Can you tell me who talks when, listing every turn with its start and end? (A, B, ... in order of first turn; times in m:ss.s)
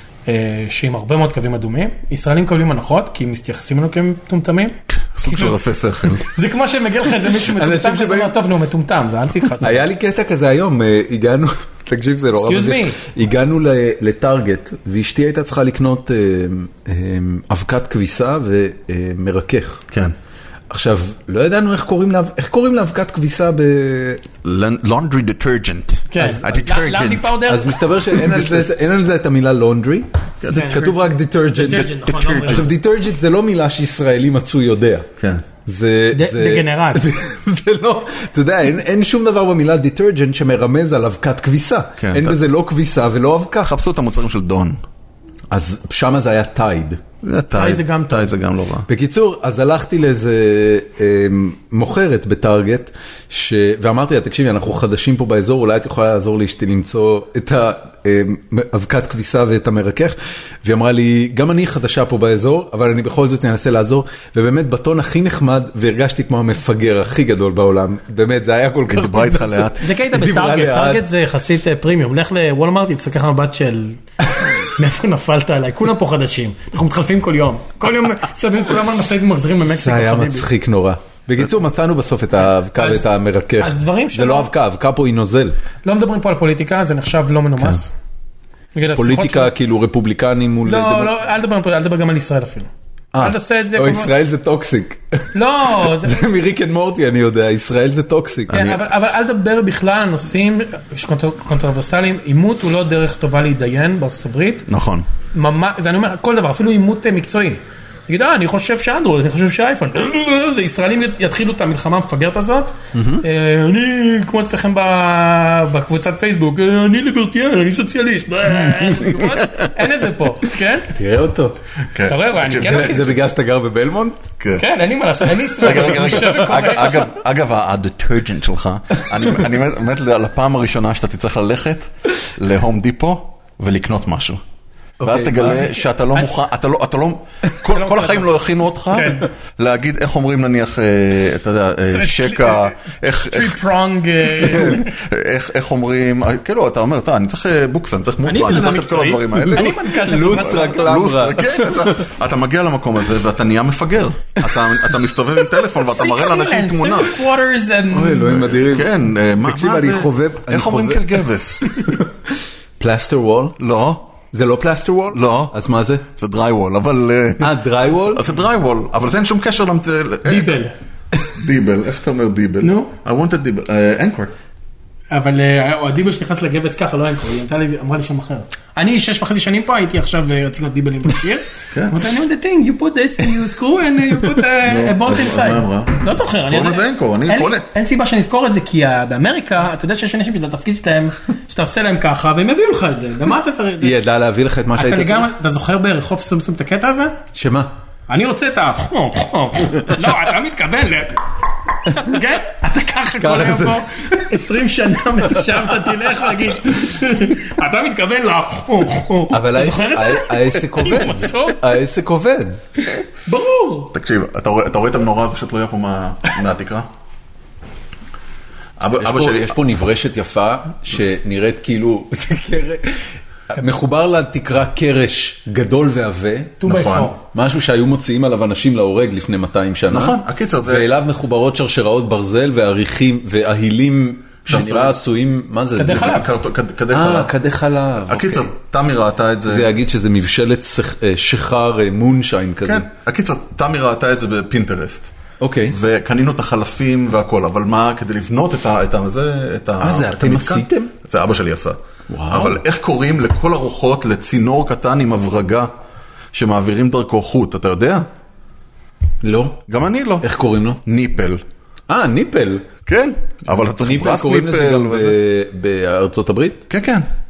0:00.2-0:05.6 A
0:05.1-0:06.2 B
0:06.2-0:09.9 A
0:07.4-0:08.3 C
0:09.6-0:19.8 C
0:12.3-0:13.0 A
0:20.7-0:24.2 C
0:24.4-0:27.3 B
0:26.1-0:27.8 A
0:27.4-0:35.1 C
0:28.1-0:28.7 B
0:30.4-0:31.1 B
0:30.5-0:30.9 A
0:31.6-0:32.7 A
0:31.7-0:32.6 B
0:35.6-0:43.7 C
0:36.1-0:37.1 A
0:42.0-0:42.4 B
0:43.6-0:44.8 B
0:45.5-0:47.0 C
0:47.2-0:48.9 B
0:47.5-0:48.3 A
0:48.9-1:11.0 C
1:08.9-1:09.9 B
1:09.8-1:20.5 A
1:19.8-1:25.6 C
1:22.8-1:23.0 A
1:23.6-1:24.5 A
1:25.8-1:27.9 A
1:28.7-1:29.5 A
1:28.9-1:31.1 C
1:30.6-1:34.1 A
1:33.1-1:38.7 C
1:35.3-1:36.3 A
1:38.5-1:38.8 B
1:38.5-1:44.6 A
1:44.7-1:45.0 B
1:45.3-2:01.0 A
1:52.9-1:53.2 C
2:00.9-2:01.6 C
2:01.9-2:03.1 B
2:02.0-2:03.2 A
2:02.6-2:04.3 C
2:04.4-2:04.6 B
2:04.5-2:07.1 A
2:05.6-2:14.4 B
2:05.7-2:06.1 C
2:15.0-2:15.7 C
2:15.0-2:23.6 B
2:17.6-2:18.3 A
2:18.9-2:19.3 A
2:22.0-2:24.9 A
2:24.2-2:37.2 B
2:28.2-2:31.1 A
2:29.5-2:32.0 C
2:35.6-2:38.6 A
2:37.9-2:42.1 C
2:38.6-2:41.7 B
2:42.8-2:43.6 C
2:43.6-2:44.1 B
2:44.3-2:46.0 C
2:45.1-2:45.5 B
2:46.1-2:50.6 B
2:47.4-2:48.3 C
2:50.2-2:50.7 A
2:51.3-2:54.3 B
2:52.6-2:52.9 A
2:55.1-3:14.0 A
3:01.7-3:02.0 B
3:04.6-3:07.6 B
3:13.8-3:15.3 C
3:14.7-3:17.2 A
3:17.3-3:17.7 C
3:18.1-3:21.2 A
3:21.8-3:31.8 A
3:23.2-3:23.8 C
3:29.3-3:32.6 C
3:33.2-3:33.9 A
3:33.9-3:36.9 B
3:38.8-3:39.6 B
3:39.0-3:46.6 C
3:46.6-3:47.2 A
3:46.6-3:47.1 B
3:47.3-3:56.2 C
3:49.9-3:50.9 B
3:54.5-3:55.0 B
3:55.8-3:56.3 A
3:55.9-3:57.3 B
3:56.9-3:58.5 C
3:58.0-3:59.7 B
3:59.5-4:02.9 C
4:02.6-4:05.1 B
4:05.4-4:05.8 C
4:05.7-4:11.8 B
4:09.8-4:10.9 C
4:12.1-4:12.6 C
4:12.3-4:15.7 B
4:16.3-4:18.0 B
4:19.2-4:19.6 C
4:19.7-4:20.2 B
4:20.2-4:20.8 C
4:20.8-4:21.4 B
4:21.9-4:22.7 C
4:22.9-4:25.2 B
4:23.5-4:26.6 C
4:26.7-4:27.0 B